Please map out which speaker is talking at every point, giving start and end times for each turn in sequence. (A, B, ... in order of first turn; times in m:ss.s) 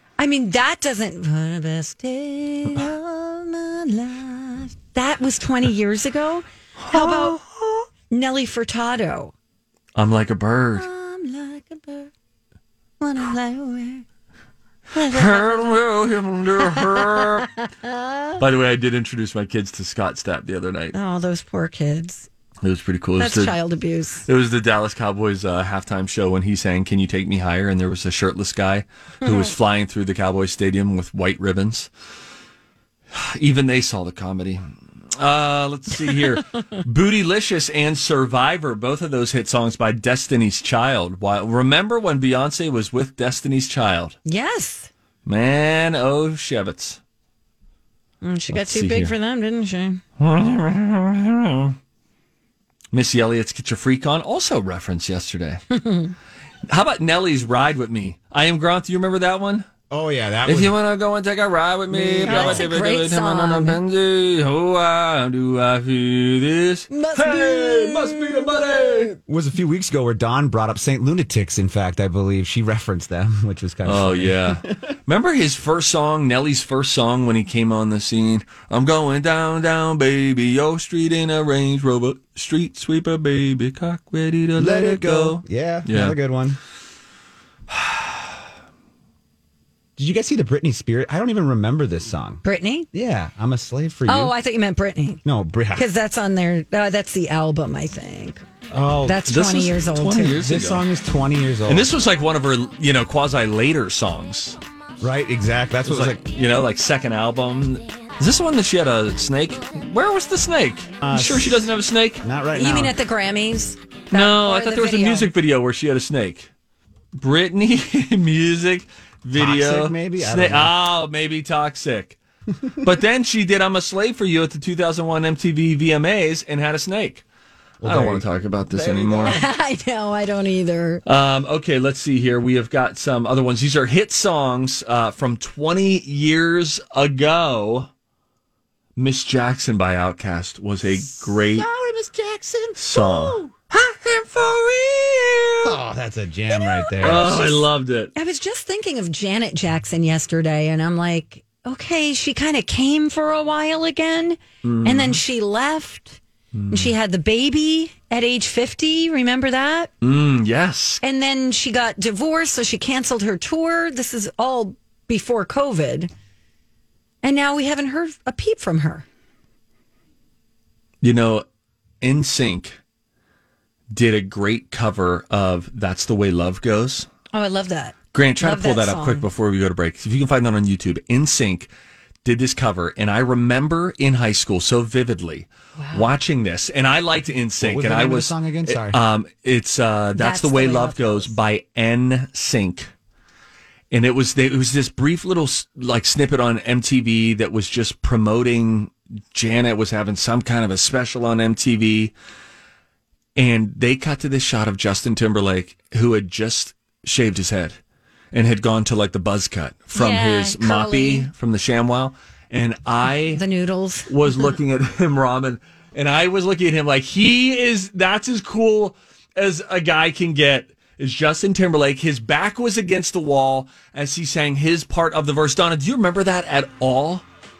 0:00.2-0:07.4 A
0:06.8-0:07.8 B
0:08.1-0:09.3 A
0:09.9-0:10.9 B
0:10.8-0:12.1 A
0:13.0-0:14.0 A
0:15.0-0:15.6 A
0:15.0-0:17.5 B
0:17.7-0:18.4 A
0:18.4-0:21.0 B
0:20.9-0:22.3 A
0:22.6-0:23.6 B
0:23.2-0:24.2 A
0:24.2-0:31.9 B
0:29.2-0:29.5 A
0:33.1-0:34.6 B
0:35.1-0:44.2 B
0:44.2-0:44.9 A
0:45.2-0:47.0 B
0:48.2-0:50.0 A
0:48.5-0:49.1 B
0:50.2-0:51.7 B
0:52.9-0:55.6 B
0:55.7-0:56.1 A
0:56.7-0:59.6 B
0:59.9-1:00.8 C
1:00.4-1:09.2 B
1:01.9-1:03.8 A
1:02.2-1:02.7 C
1:06.9-1:09.1 A
1:09.2-1:14.8 C
1:13.8-1:26.2 B
1:24.6-1:26.6 C
1:30.0-1:32.4 C
1:32.4-1:32.9 A
1:32.9-1:34.3 C
1:34.1-1:35.2 A
1:35.2-1:35.9 C
1:35.7-1:38.4 A
1:38.7-1:39.3 C
1:39.0-1:40.4 A
1:39.2-1:40.9 B
1:40.4-1:41.9 C
1:41.6-1:44.6 B
1:45.0-1:46.2 C
1:45.8-1:52.2 B
1:51.0-1:51.6 C
1:52.2-1:53.0 C
1:52.5-1:55.3 A
1:54.1-1:56.5 B
1:57.1-2:02.2 B
1:59.3-2:00.7 C
2:02.8-2:07.2 B
2:07.8-2:09.4 C
2:07.8-2:09.5 B
2:09.2-2:11.0 A
2:11.0-2:17.9 B
2:19.0-2:21.7 B
2:21.0-2:23.5 C
2:22.8-2:25.8 B
2:25.6-2:27.6 C
2:26.5-2:27.4 A
2:27.0-2:28.1 B
2:28.1-2:39.9 A
2:34.6-2:35.2 B
2:36.5-2:36.9 B
2:40.0-2:41.0 B
2:41.0-2:46.1 A
2:47.2-2:49.0 A
2:51.0-2:51.4 B
2:52.0-2:52.8 B
2:53.9-2:57.1 B
2:57.3-2:59.3 A
2:58.1-3:01.7 B
3:02.2-3:12.9 B
3:05.8-3:06.1 A
3:07.6-3:09.0 C
3:10.1-3:11.3 A
3:13.9-3:22.1 B
3:23.4-3:27.8 B
3:28.3-3:33.4 B
3:29.9-3:31.3 A
3:33.3-3:34.3 A
3:34.1-3:47.2 B